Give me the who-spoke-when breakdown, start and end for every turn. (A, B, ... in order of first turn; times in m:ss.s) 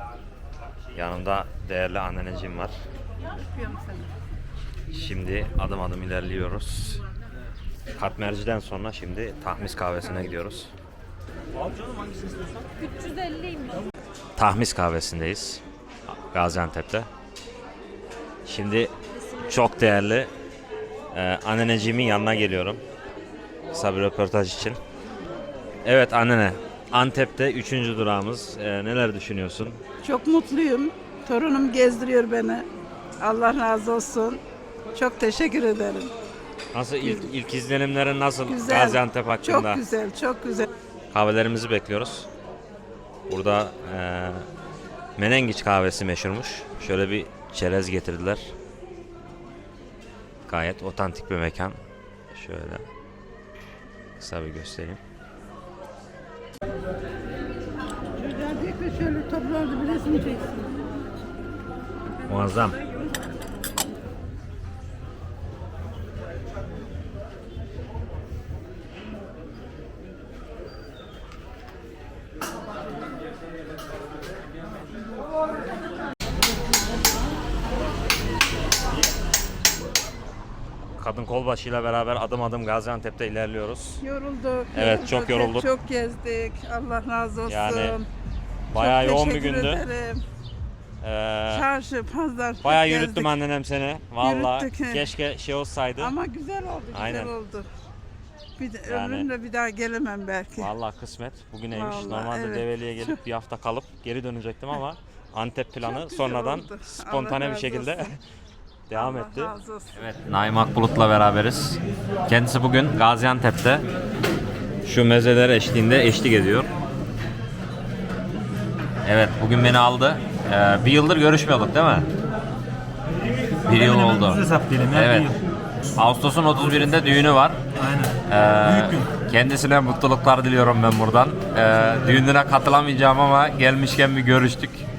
0:00.9-0:02.7 A
0:03.4-0:04.1 B
0:04.9-0:07.0 A
0:07.9-0:10.7 A
0:14.4-0:17.1 A
0:18.4-0:20.3 A
0:21.1-0:22.8 A
0:23.7-0:24.8 A
0:25.8-0:29.8 A
0:30.0-0:32.7 B
0:33.2-0:34.4 B
0:34.9-0:36.1 B
0:36.7-0:39.8 A
0:38.5-0:40.7 B
0:41.1-0:42.3 A
0:43.3-0:44.4 A
0:45.2-0:48.5 A
0:50.4-0:51.8 A
0:52.3-0:52.8 A
0:54.2-0:55.0 A
0:58.2-1:00.7 B
1:02.2-1:02.8 A
1:21.0-1:24.0 A
1:24.0-1:28.0 B
1:24.7-1:25.7 A
1:27.5-1:28.0 A
1:28.7-1:29.8 A
1:28.7-1:30.2 B
1:31.0-1:31.6 A
1:31.5-1:33.3 B
1:32.6-1:36.2 A
1:34.2-1:35.0 B
1:36.0-1:37.7 B
1:36.9-1:37.3 A
1:38.6-1:40.7 B
1:38.9-1:39.3 A
1:40.6-1:48.1 A
1:41.7-1:42.7 B
1:45.8-1:48.1 B
1:48.9-1:53.8 A
1:48.9-1:50.0 B
1:54.8-1:56.7 A
1:59.0-2:02.1 A
2:03.6-2:05.3 A
2:03.7-2:05.4 C
2:05.9-2:07.6 A
2:06.6-2:07.1 C
2:07.7-2:09.1 C
2:08.3-2:14.9 A
2:11.8-2:12.2 C